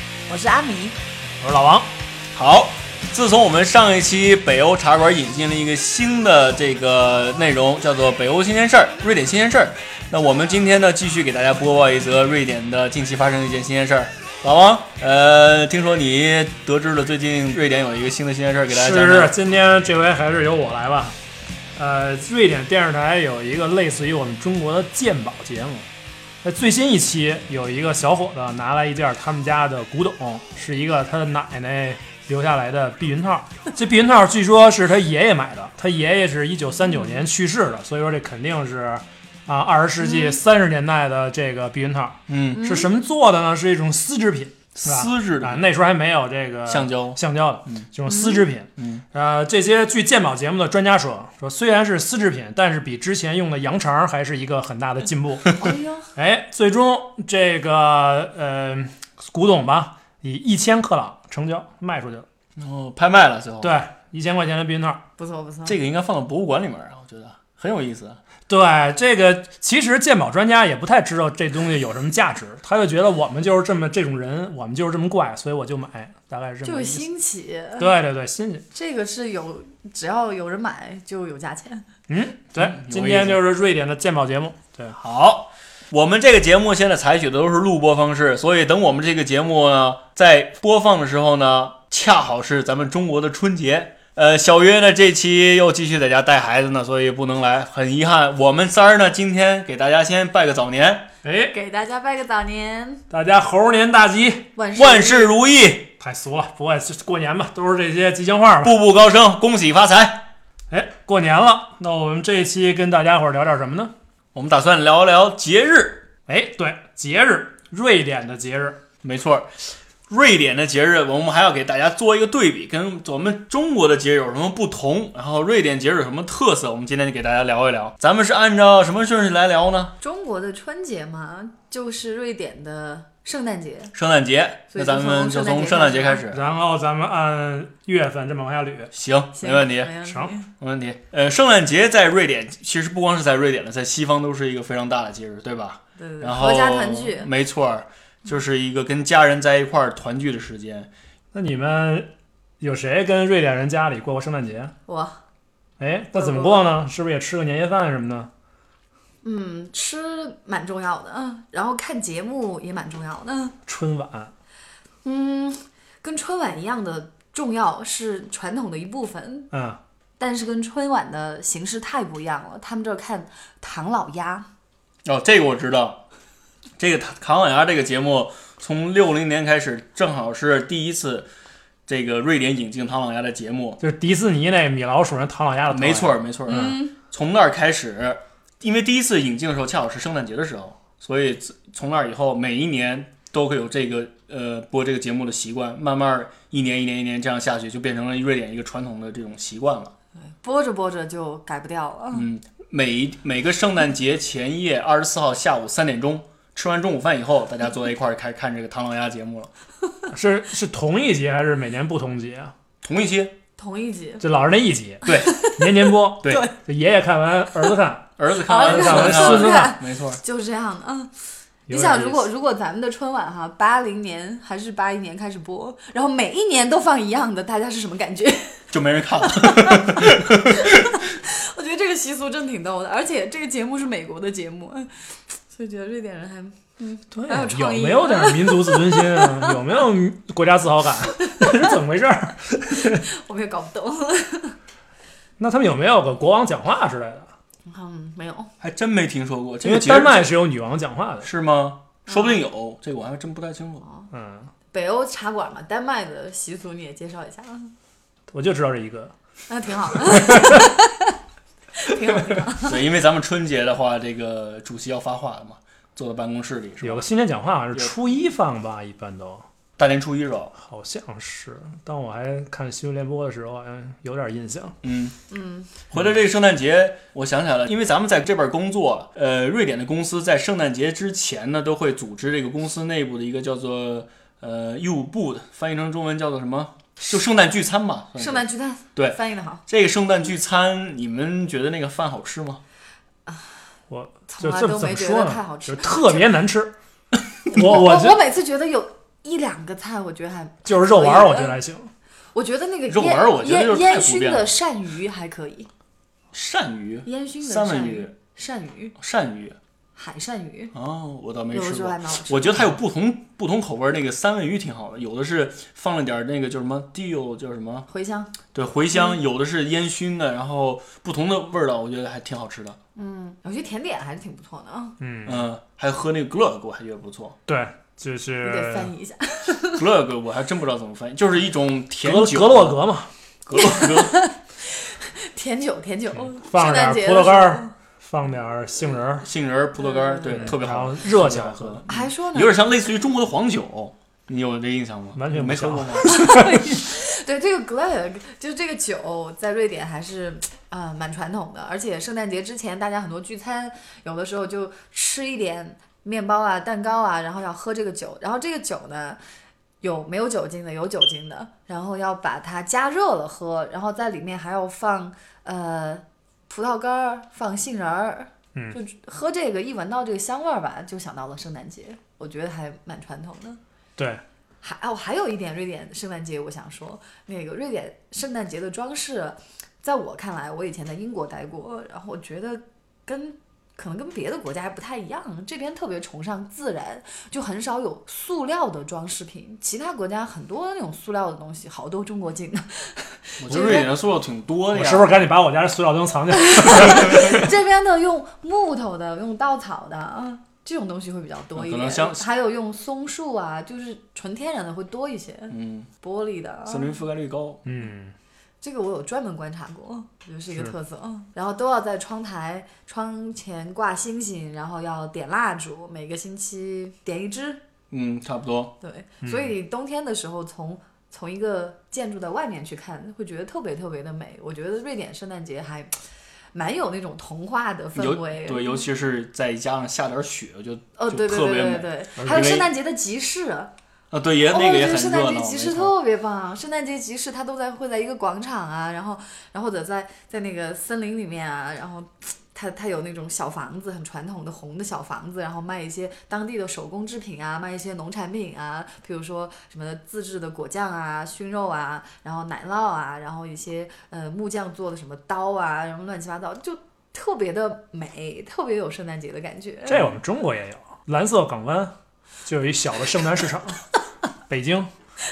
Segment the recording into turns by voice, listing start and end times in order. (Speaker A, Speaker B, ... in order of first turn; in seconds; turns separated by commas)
Speaker A: 0.3-1.0, Speaker B: 1.4-1.9, Speaker C: 2.4-19.4, Speaker B: 18.7-21.2, Speaker B: 21.8-25.9, Speaker B: 26.4-55.6, Speaker A: 36.9-37.2, Speaker A: 40.0-40.4, Speaker C: 42.3-42.7, Speaker A: 42.5-42.9, Speaker C: 44.8-45.6, Speaker C: 46.7-47.9, Speaker A: 48.1-48.5, Speaker C: 48.8-49.0, Speaker A: 55.6-56.1, Speaker B: 56.2-62.3, Speaker C: 62.6-63.8, Speaker B: 63.6-65.0, Speaker A: 65.2-65.8, Speaker C: 65.7-68.2, Speaker B: 68.5-77.0, Speaker A: 76.6-77.9, Speaker B: 77.8-78.7, Speaker A: 78.7-81.9, Speaker B: 82.1-85.0, Speaker C: 82.6-83.4, Speaker C: 85.0-101.1, Speaker B: 101.2-101.5, Speaker A: 101.5-103.0, Speaker B: 103.1-104.5, Speaker A: 104.6-105.3, Speaker C: 104.8-105.9, Speaker B: 106.0-108.7, Speaker C: 108.6-110.3, Speaker B: 110.7-113.9, Speaker C: 114.3-116.0, Speaker B: 116.3-118.8, Speaker C: 119.0-119.5, Speaker C: 120.1-129.9, Speaker A: 130.0-133.9, Speaker C: 133.9-136.5, Speaker A: 134.7-136.2, Speaker B: 136.3-138.9, Speaker C: 138.9-139.9, Speaker A: 139.4-140.5, Speaker B: 140.1-140.3, Speaker C: 140.6-150.9, Speaker A: 146.0-147.3, Speaker B: 151.3-154.7, Speaker A: 154.9-155.2, Speaker B: 155.8-158.3, Speaker A: 156.1-156.7, Speaker A: 159.2-163.6, Speaker B: 163.7-164.3, Speaker A: 165.0-169.5, Speaker B: 169.5-169.8, Speaker A: 170.2-174.5, Speaker C: 175.1-176.0, Speaker C: 176.8-181.3, Speaker C: 181.9-183.8, Speaker B: 183.8-186.8, Speaker C: 185.7-199.9, Speaker A: 186.5-186.9, Speaker A: 200.4-202.3, Speaker C: 202.1-209.5, Speaker B: 210.1-212.5, Speaker C: 212.8-213.3, Speaker A: 213.6-214.3, Speaker B: 214.2-219.8, Speaker C: 215.1-215.4, Speaker A: 215.1-216.5, Speaker C: 216.2-216.5, Speaker C: 218.2-220.2, Speaker A: 218.4-221.1, Speaker B: 221.7-222.2, Speaker A: 221.7-228.7, Speaker C: 228.7-231.1, Speaker A: 229.3-234.9, Speaker A: 235.5-239.6, Speaker B: 237.1-243.1, Speaker A: 241.2-241.7, Speaker A: 242.8-244.6, Speaker B: 245.4-247.3, Speaker A: 247.7-248.5, Speaker C: 248.6-250.3, Speaker B: 249.6-251.3, Speaker C: 251.2-253.8, Speaker A: 252.1-252.5, Speaker A: 253.8-254.1, Speaker B: 254.1-254.5, Speaker A: 254.7-257.7, Speaker B: 258.3-259.1, Speaker A: 259.5-261.1, Speaker B: 260.0-260.7, Speaker A: 261.8-262.8, Speaker C: 262.6-267.1, Speaker B: 266.8-269.4, Speaker C: 269.8-270.6, Speaker B: 270.6-274.8, Speaker C: 274.8-275.2, Speaker A: 275.3-275.7, Speaker C: 275.9-292.6, Speaker A: 288.2-289.6, Speaker A: 293.3-293.6, Speaker B: 293.9-296.7, Speaker A: 294.3-296.3, Speaker B: 297.5-298.2, Speaker A: 297.5-301.6, Speaker B: 300.6-301.9, Speaker A: 302.3-305.7, Speaker C: 302.9-304.5, Speaker C: 306.3-308.1, Speaker A: 307.1-308.9, Speaker C: 309.0-309.6, Speaker A: 310.0-310.7, Speaker C: 310.7-317.9, Speaker A: 311.5-312.8, Speaker A: 317.9-318.3, Speaker C: 318.5-322.8, Speaker A: 318.9-319.2, Speaker A: 323.0-324.9, Speaker B: 325.0-325.5, Speaker C: 325.2-327.4, Speaker B: 327.5-328.9, Speaker A: 328.4-329.8, Speaker C: 329.8-332.8, Speaker B: 332.0-333.1, Speaker C: 333.5-334.2, Speaker A: 333.6-337.7, Speaker B: 336.2-339.3, Speaker C: 339.2-346.2, Speaker A: 339.8-340.6, Speaker B: 340.3-341.9, Speaker A: 341.9-342.6, Speaker B: 345.1-346.7, Speaker A: 346.1-359.2, Speaker A: 359.8-373.6, Speaker B: 374.0-374.2, Speaker A: 374.6-393.9, Speaker C: 393.4-395.2, Speaker B: 394.7-397.4, Speaker A: 396.3-406.9, Speaker C: 401.6-402.2, Speaker C: 405.5-405.9, Speaker C: 406.7-407.7, Speaker B: 407.7-408.1, Speaker A: 408.6-417.6, Speaker C: 417.9-418.8, Speaker A: 418.8-425.9, Speaker B: 419.2-419.5, Speaker A: 426.5-428.8, Speaker C: 427.9-432.7, Speaker A: 431.0-433.7, Speaker B: 432.2-432.5, Speaker C: 434.1-435.9, Speaker A: 434.4-460.1, Speaker B: 459.9-463.8, Speaker B: 464.5-464.9